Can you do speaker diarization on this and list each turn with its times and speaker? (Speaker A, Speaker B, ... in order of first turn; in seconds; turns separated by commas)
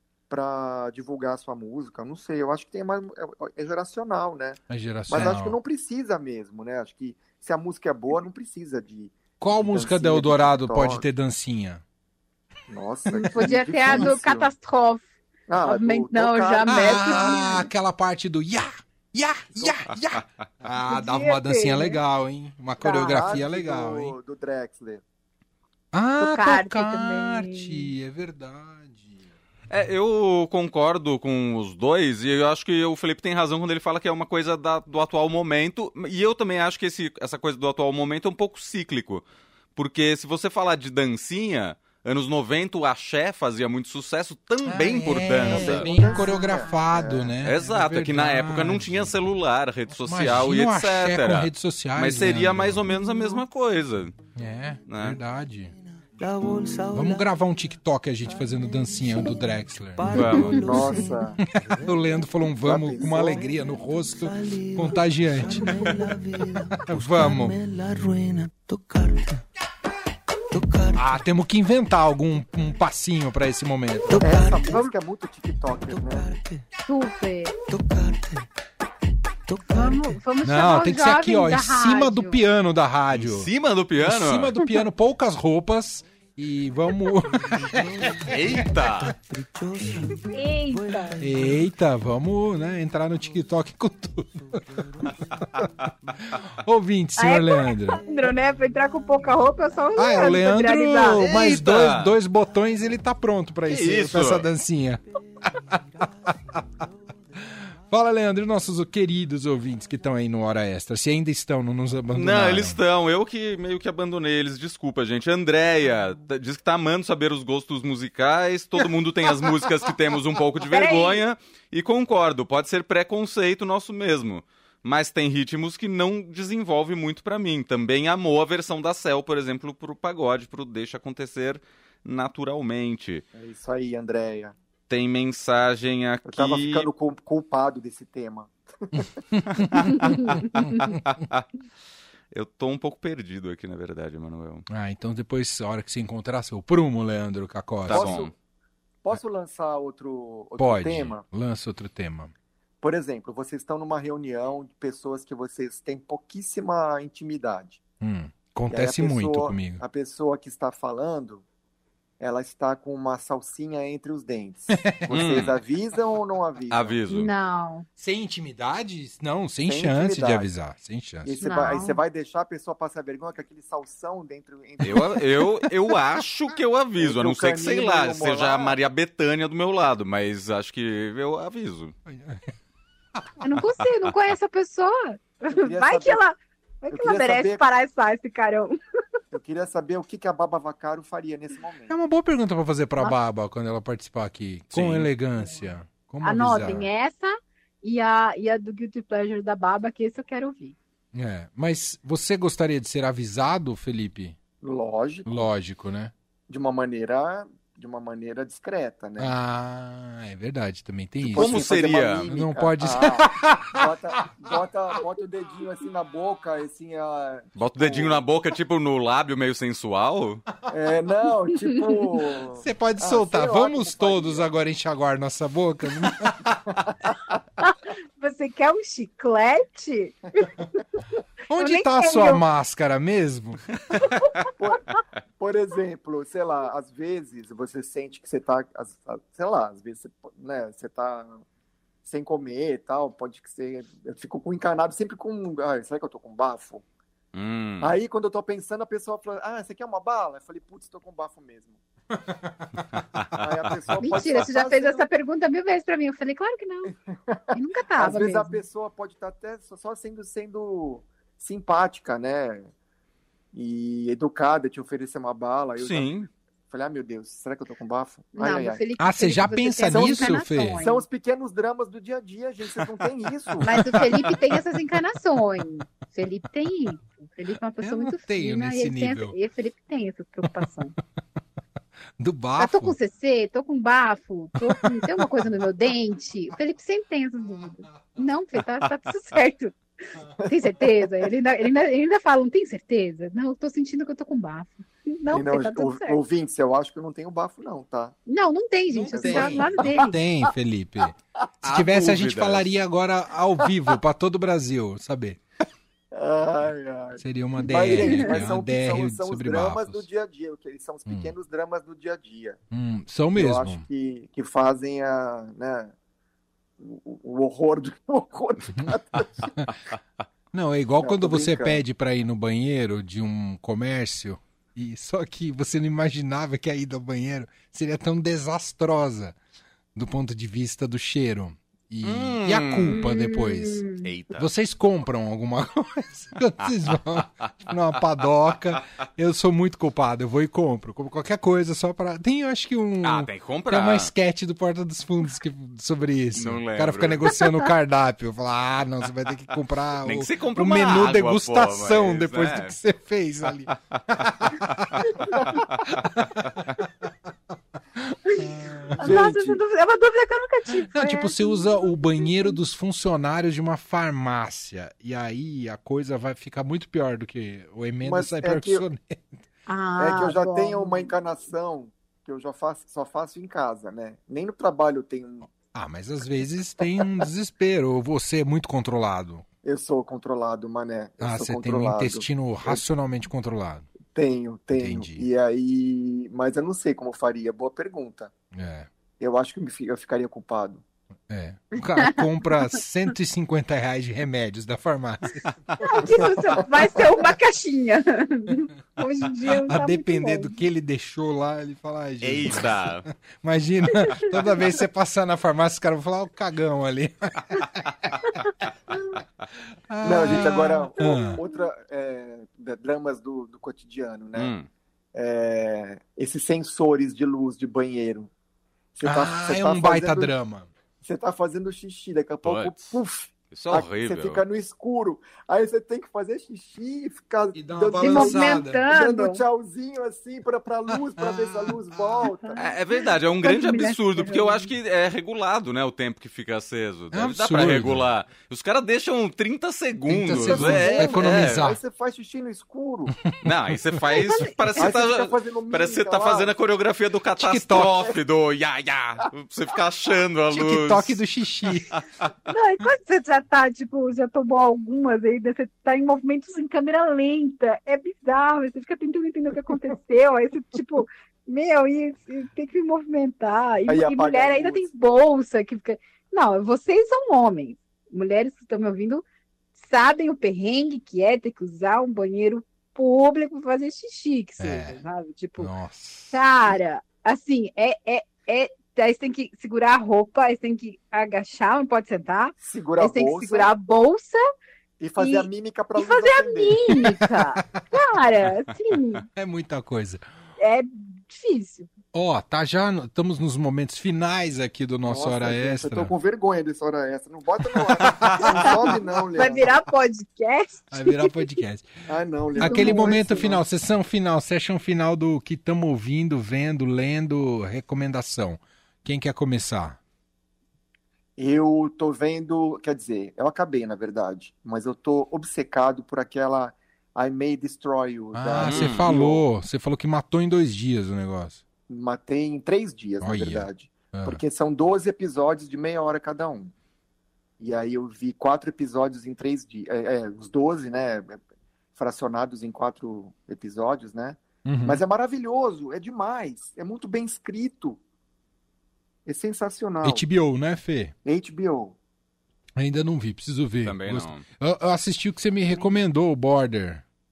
Speaker A: 0.3-11.0, Speaker B: 4.7-5.6, Speaker B: 9.4-11.8, Speaker A: 12.7-14.5, Speaker C: 13.1-15.0, Speaker B: 13.9-14.1, Speaker A: 15.5-17.6, Speaker C: 15.6-17.7, Speaker B: 16.7-24.1, Speaker A: 19.5-19.9, Speaker C: 20.9-22.0, Speaker C: 22.8-23.2, Speaker A: 22.8-25.0, Speaker B: 25.9-29.2, Speaker C: 26.2-27.9, Speaker D: 29.7-39.2, Speaker D: 39.8-45.9, Speaker B: 44.6-49.2, Speaker A: 45.4-47.3, Speaker C: 46.0-46.3, Speaker D: 47.4-54.1, Speaker B: 49.9-52.9, Speaker B: 54.3-55.7, Speaker D: 54.9-55.2, Speaker E: 56.2-57.3, Speaker B: 56.9-60.5, Speaker E: 58.2-62.5, Speaker D: 60.1-60.6, Speaker A: 60.4-61.4, Speaker B: 61.4-65.9, Speaker A: 62.6-63.5, Speaker E: 63.1-69.4, Speaker B: 66.8-67.6, Speaker E: 70.5-71.2, Speaker B: 70.9-74.3, Speaker E: 74.1-74.9, Speaker A: 74.2-76.3, Speaker C: 74.7-74.9, Speaker E: 75.8-76.6, Speaker C: 76.8-77.6, Speaker E: 77.7-78.5, Speaker E: 79.5-80.2, Speaker C: 79.7-82.4, Speaker B: 80.4-83.5, Speaker D: 83.1-84.5, Speaker B: 84.0-88.6, Speaker E: 87.3-88.3, Speaker D: 88.2-89.1, Speaker E: 89.1-91.7, Speaker C: 90.3-91.2, Speaker B: 91.2-94.6, Speaker E: 94.7-95.1, Speaker B: 96.3-98.0, Speaker C: 97.2-101.2, Speaker B: 100.0-106.3, Speaker D: 101.2-102.1, Speaker D: 103.7-104.5, Speaker E: 105.5-107.1, Speaker B: 107.9-112.8, Speaker D: 112.1-133.2, Speaker C: 120.7-121.2, Speaker A: 133.3-134.5, Speaker D: 134.9-136.9, Speaker A: 136.3-139.1, Speaker B: 138.9-141.0, Speaker D: 139.7-141.4, Speaker D: 142.3-144.6, Speaker B: 144.7-148.2, Speaker D: 147.9-148.3, Speaker A: 147.9-148.3, Speaker A: 149.0-151.2, Speaker B: 150.6-152.3, Speaker A: 152.8-157.8, Speaker B: 158.0-159.8, Speaker A: 158.7-161.4, Speaker A: 162.2-167.0, Speaker B: 164.7-165.4, Speaker D: 165.1-165.6, Speaker D: 166.7-167.3, Speaker C: 167.1-167.8, Speaker B: 168.0-171.7, Speaker A: 169.7-170.5, Speaker A: 171.2-175.4, Speaker C: 171.4-172.0, Speaker D: 174.8-181.9, Speaker A: 177.0-178.8, Speaker B: 182.1-182.5, Speaker C: 183.4-188.8, Speaker A: 185.5-186.2, Speaker A: 186.9-187.7, Speaker A: 189.3-192.0, Speaker B: 191.9-196.9, Speaker D: 194.7-195.1, Speaker C: 196.2-200.8, Speaker B: 201.1-204.4, Speaker A: 204.6-205.5, Speaker B: 205.2-206.1, Speaker A: 206.5-209.3, Speaker B: 209.2-211.7, Speaker A: 211.2-218.2, Speaker D: 211.3-212.3, Speaker B: 212.2-213.9, Speaker D: 217.6-220.4, Speaker A: 220.7-224.5, Speaker B: 222.6-226.4, Speaker A: 226.7-227.4, Speaker C: 227.6-232.4, Speaker B: 231.5-233.6, Speaker C: 234.0-234.3, Speaker A: 234.6-241.4, Speaker A: 242.0-246.8, Speaker D: 247.3-247.9, Speaker A: 247.8-251.8, Speaker B: 252.2-253.0, Speaker D: 253.1-253.4, Speaker A: 253.4-255.1, Speaker C: 254.0-256.9, Speaker A: 257.1-262.7, Speaker C: 257.5-258.6, Speaker A: 263.5-266.1, Speaker D: 265.8-266.3, Speaker A: 266.7-268.8, Speaker C: 268.4-271.0, Speaker B: 269.0-270.8, Speaker A: 269.9-273.7, Speaker C: 273.6-280.9, Speaker B: 273.7-274.6, Speaker B: 277.8-279.4, Speaker B: 282.2-283.0, Speaker C: 282.6-296.2, Speaker B: 284.6-285.5, Speaker A: 290.4-291.3, Speaker A: 295.3-298.1, Speaker C: 298.3-300.1, Speaker B: 298.9-305.4, Speaker A: 299.1-299.9, Speaker D: 301.6-302.7, Speaker A: 306.1-312.6, Speaker B: 307.2-310.1, Speaker C: 307.6-308.4, Speaker B: 311.1-311.3, Speaker B: 312.7-313.8, Speaker A: 313.3-315.9, Speaker A: 316.8-319.6, Speaker B: 318.7-319.0, Speaker B: 320.5-329.4, Speaker A: 321.0-321.8, Speaker B: 329.9-356.7, Speaker D: 332.0-333.0, Speaker C: 332.9-334.1, Speaker D: 334.0-334.5, Speaker D: 343.0-344.1, Speaker D: 346.3-347.5, Speaker D: 350.0-352.7, Speaker D: 353.7-354.0, Speaker D: 354.6-354.9, Speaker B: 358.0-359.4, Speaker C: 359.0-362.6, Speaker A: 359.0-359.6, Speaker B: 360.7-369.3, Speaker A: 368.0-368.8, Speaker C: 369.7-371.1, Speaker A: 370.0-375.5, Speaker B: 375.5-379.4, Speaker A: 379.6-382.8, Speaker B: 381.2-383.9, Speaker A: 384.1-388.3, Speaker B: 384.7-385.3, Speaker B: 388.5-388.9, Speaker A: 389.2-390.8, Speaker B: 391.3-395.4, Speaker C: 392.0-392.6, Speaker C: 395.8-400.5, Speaker A: 396.0-397.2, Speaker B: 399.5-407.9, Speaker D: 402.2-403.1, Speaker C: 403.9-404.4, Speaker B: 409.9-411.4, Speaker A: 410.0-414.5, Speaker C: 411.0-411.6, Speaker D: 414.3-414.7, Speaker A: 415.1-418.3, Speaker A: 418.9-420.3, Speaker B: 419.0-420.7, Speaker A: 421.0-432.6, Speaker D: 422.4-422.9, Speaker D: 423.5-424.4, Speaker B: 427.5-428.8, Speaker C: 428.0-429.4, Speaker B: 430.9-432.2, Speaker C: 432.4-434.7, Speaker D: 432.6-441.7, Speaker B: 437.1-438.1, Speaker B: 440.1-441.8, Speaker A: 440.4-443.1, Speaker B: 443.1-444.4, Speaker D: 443.4-451.2, Speaker C: 444.1-444.9, Speaker A: 444.8-446.5, Speaker B: 447.4-448.1, Speaker A: 447.8-448.1, Speaker B: 450.5-452.0, Speaker C: 452.5-469.2, Speaker A: 463.9-464.9, Speaker C: 469.8-475.7, Speaker B: 474.6-475.0, Speaker B: 475.6-476.4, Speaker C: 476.3-484.4, Speaker A: 482.6-483.7, Speaker A: 485.0-487.0, Speaker C: 485.2-489.2, Speaker B: 487.2-487.6, Speaker B: 489.3-490.2, Speaker C: 490.6-491.9, Speaker B: 492.1-496.1, Speaker A: 495.0-499.8, Speaker B: 497.9-498.2, Speaker C: 498.4-501.6, Speaker B: 500.9-501.9, Speaker A: 502.1-503.6, Speaker B: 502.5-510.0, Speaker C: 502.6-503.2, Speaker A: 511.4-519.4, Speaker B: 518.3-521.6, Speaker D: 518.6-519.1, Speaker A: 521.9-526.7, Speaker B: 523.2-524.4, Speaker A: 527.6-531.4, Speaker A: 531.9-538.0, Speaker B: 534.6-535.0, Speaker A: 539.2-540.2, Speaker B: 540.0-541.1, Speaker A: 541.2-542.0, Speaker B: 542.8-547.0, Speaker D: 543.8-544.4